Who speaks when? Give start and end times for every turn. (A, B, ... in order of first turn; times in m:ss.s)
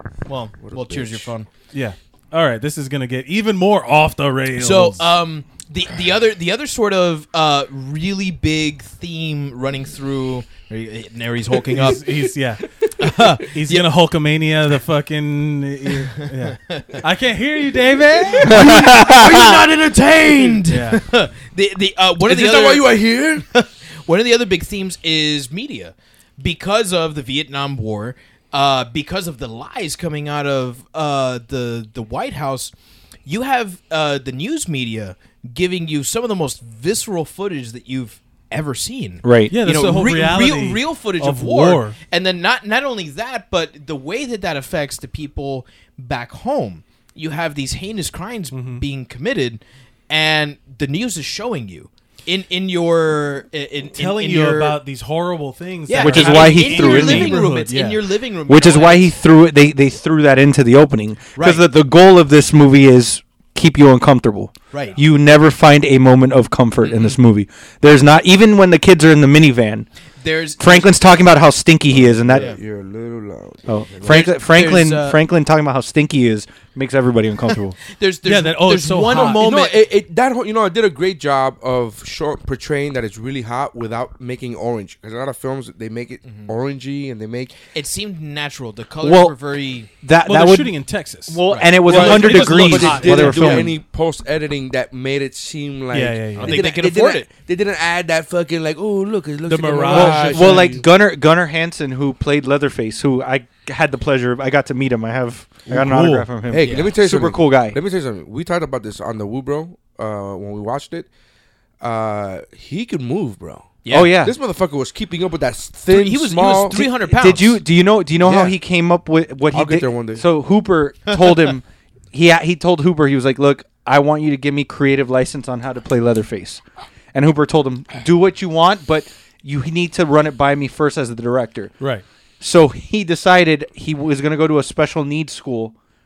0:00.2-0:01.5 A
0:00.6-0:01.3 B
0:01.7-0:05.0 C
0:04.6-0:12.0 A
0:11.7-0:18.6 C
0:13.0-0:13.8 A
0:16.2-0:17.0 A
0:18.3-0:32.7 A
0:18.4-0:19.6 D
0:19.1-0:20.6 B
0:20.6-0:21.0 C
0:22.2-0:23.4 B
0:33.2-0:54.8 A
0:39.2-0:39.5 D
0:39.5-0:42.0 C
0:48.5-0:48.8 C
0:53.9-0:58.0 C
0:55.9-0:59.1 A
0:56.0-0:57.4 D
0:58.5-1:09.9 D
1:01.4-1:01.7 A
1:04.7-1:05.0 A
1:06.8-1:07.2 A
1:10.2-1:11.0 A
1:10.6-1:12.5 D
1:11.9-1:14.2 B
1:12.3-1:12.6 A
1:13.7-1:17.8 D
1:14.0-1:15.2 A
1:17.9-1:19.8 A
1:18.2-1:19.4 C
1:19.1-1:27.6 B
1:26.2-1:26.5 A
1:27.7-1:29.9 A
1:29.0-1:29.3 D
1:30.0-1:30.7 D
1:30.2-1:33.7 C
1:31.3-1:33.8 D
1:31.5-1:32.2 A
1:31.8-1:40.9 B
1:33.2-1:33.6 A
1:35.9-1:36.6 C
1:36.4-1:37.3 A
1:39.4-1:40.8 C
1:39.9-1:47.8 D
1:45.7-1:46.3 C
1:46.4-1:51.1 B
1:46.6-1:46.9 A
1:51.8-1:56.8 B
1:53.8-1:54.1 A
1:53.9-1:54.4 D
1:55.9-1:57.6 A
1:56.7-2:06.6 D
1:58.2-1:58.6 B
1:59.5-2:00.2 B
2:07.1-2:11.8 D
2:12.4-2:15.7 D